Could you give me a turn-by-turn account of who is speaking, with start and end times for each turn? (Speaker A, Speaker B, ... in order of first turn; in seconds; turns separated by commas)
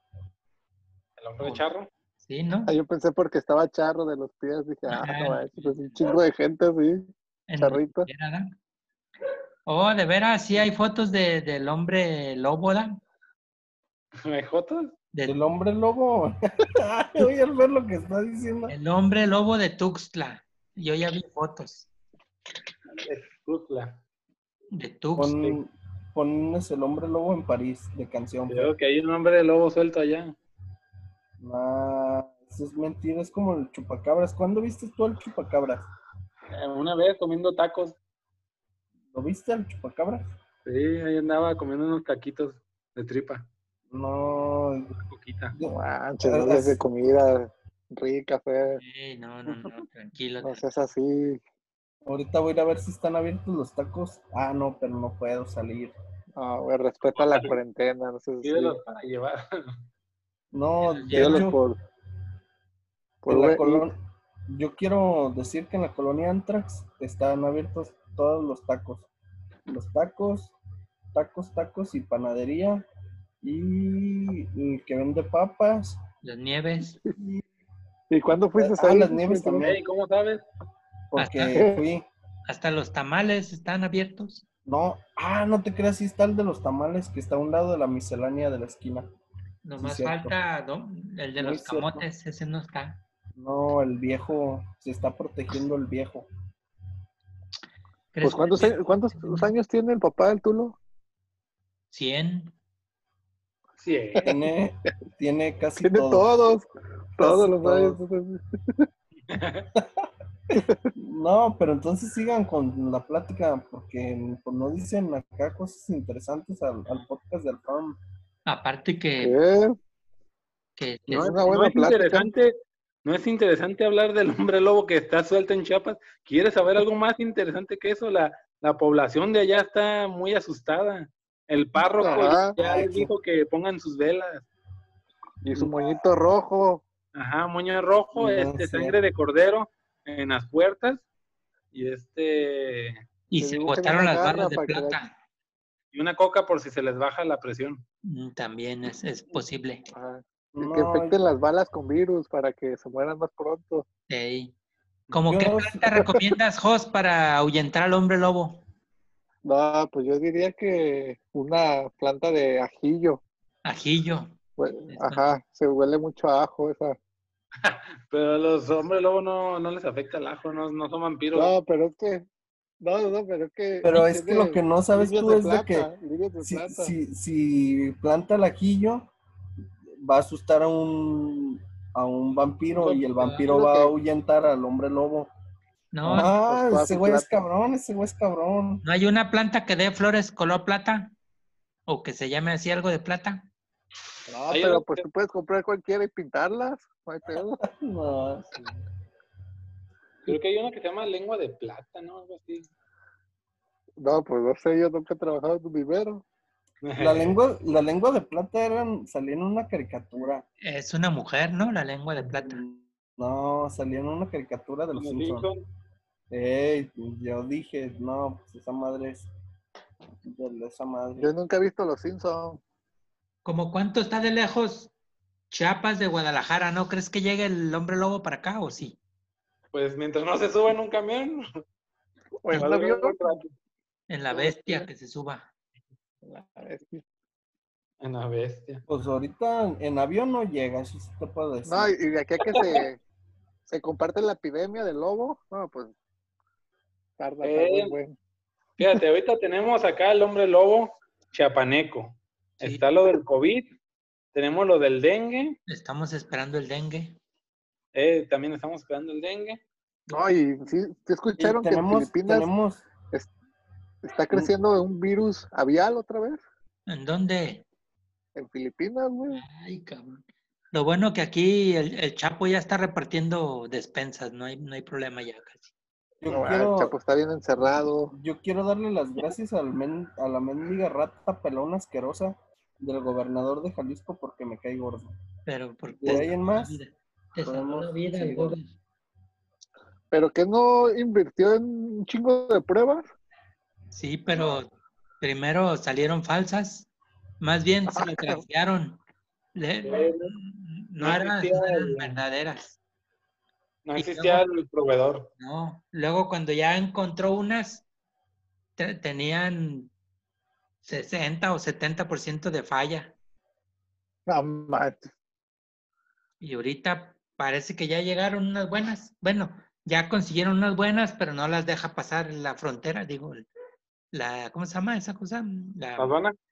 Speaker A: 1.2-1.9, Speaker B: 1.4-1.7, Speaker B: 2.2-2.7, Speaker C: 2.7-8.1, Speaker B: 4.9-6.0, Speaker B: 7.5-8.6, Speaker B: 9.7-13.0, Speaker A: 14.2-14.9, Speaker D: 15.2-18.8, Speaker B: 18.7-21.9, Speaker A: 23.0-24.0, Speaker B: 24.7-25.4, Speaker D: 25.2-28.7, Speaker A: 28.5-30.4, Speaker D: 31.4-35.9, Speaker A: 36.5-38.0, Speaker D: 39.1-40.3, Speaker A: 40.7-43.5, Speaker D: 43.9-45.0, Speaker A: 45.0-45.6, Speaker D: 45.5-46.8, Speaker C: 45.6-48.8, Speaker B: 48.8-50.6, Speaker C: 50.4-51.4, Speaker D: 52.1-55.9, Speaker C: 56.4-58.8, Speaker A: 57.1-57.6, Speaker A: 58.4-59.8, Speaker D: 60.5-61.6, Speaker B: 60.8-61.4, Speaker C: 61.1-61.8, Speaker C: 63.2-63.9, Speaker D: 63.3-69.1, Speaker D: 69.7-70.5, Speaker D: 71.1-72.9, Speaker D: 73.4-76.0, Speaker B: 76.2-77.0, Speaker D: 77.2-77.4, Speaker C: 78.1-79.6, Speaker D: 78.6-79.8, Speaker A: 79.6-80.4, Speaker D: 81.1-82.1, Speaker B: 81.2-81.6, Speaker C: 81.5-81.8, Speaker B: 82.5-84.5, Speaker D: 84.7-89.1, Speaker B: 89.6-93.0, Speaker D: 89.8-90.3, Speaker D: 91.4-92.1, Speaker D: 93.4-96.3, Speaker B: 98.1-99.5, Speaker C: 98.2-100.8, Speaker B: 101.9-102.5, Speaker A: 103.8-104.3, Speaker D: 104.2-106.3, Speaker C: 105.8-106.7, Speaker C: 107.2-108.9, Speaker D: 107.2-108.0, Speaker A: 109.3-109.7, Speaker D: 109.8-110.0, Speaker C: 110.5-110.9, Speaker D: 111.0-118.0, Speaker B: 118.5-119.4, Speaker C: 119.2-119.8, Speaker B: 120.8-121.3, Speaker D: 121.1-121.4, Speaker C: 121.1-122.3, Speaker A: 121.5-134.5, Speaker C: 131.8-133.1, Speaker D: 132.6-133.0, Speaker C: 135.4-136.8, Speaker A: 137.1-141.1, Speaker D: 138.2-139.0, Speaker A: 141.7-143.0, Speaker B: 143.3-145.1, Speaker C: 143.4-145.0, Speaker A: 145.9-147.8, Speaker B: 148.0-149.9, Speaker C: 149.9-153.9, Speaker D: 150.6-151.2, Speaker B: 154.1-154.5, Speaker B: 155.1-158.6, Speaker D: 155.3-155.8, Speaker C: 159.4-163.2, Speaker B: 163.7-164.3, Speaker C: 164.6-167.0, Speaker B: 164.9-165.2, Speaker A: 167.6-171.5, Speaker C: 171.3-172.3, Speaker C: 172.8-176.9, Speaker D: 173.8-175.9, Speaker D: 176.4-179.1, Speaker D: 180.0-185.3, Speaker C: 182.8-183.9, Speaker B: 185.9-186.3, Speaker D: 186.0-188.8, Speaker C: 186.2-187.3, Speaker B: 188.8-191.1, Speaker B: 191.9-193.5, Speaker C: 194.3-197.6, Speaker A: 194.5-195.1, Speaker D: 197.7-198.5, Speaker A: 200.3-202.7, Speaker C: 204.0-206.2, Speaker A: 206.8-207.4, Speaker D: 207.0-210.5, Speaker B: 210.6-212.6, Speaker D: 212.2-215.5, Speaker A: 214.9-215.6, Speaker D: 216.3-219.3, Speaker D: 220.2-221.3, Speaker C: 221.2-222.6, Speaker B: 223.4-224.9, Speaker B: 225.5-229.0, Speaker A: 229.7-231.5, Speaker C: 232.4-233.2, Speaker A: 232.5-233.5, Speaker B: 234.1-235.5, Speaker C: 234.3-234.9, Speaker C: 236.2-237.0, Speaker A: 238.0-238.8, Speaker D: 238.9-242.0, Speaker C: 241.7-243.0, Speaker C: 243.7-245.9, Speaker C: 247.2-248.2, Speaker A: 247.4-247.9, Speaker A: 248.8-253.8, Speaker A: 254.3-255.6, Speaker B: 255.7-257.2, Speaker A: 257.9-259.6, Speaker C: 260.1-262.5, Speaker D: 261.4-262.9, Speaker C: 264.0-266.4, Speaker B: 266.9-267.6, Speaker C: 268.4-269.4, Speaker B: 269.3-275.7, Speaker D: 276.2-276.9, Speaker C: 276.3-278.1, Speaker D: 278.1-285.1, Speaker B: 285.5-288.7, Speaker D: 286.0-286.8, Speaker D: 287.4-288.6, Speaker C: 290.1-293.1, Speaker B: 293.9-296.9, Speaker B: 297.4-299.0, Speaker C: 297.9-298.4, Speaker B: 299.6-302.8, Speaker A: 299.9-300.4, Speaker A: 301.0-302.2, Speaker A: 303.9-305.3, Speaker B: 304.0-304.4, Speaker B: 305.4-307.9, Speaker B: 308.8-309.9, Speaker B: 310.8-313.1, Speaker C: 314.3-315.1, Speaker B: 316.4-323.5, Speaker B: 324.1-326.2, Speaker A: 326.0-326.4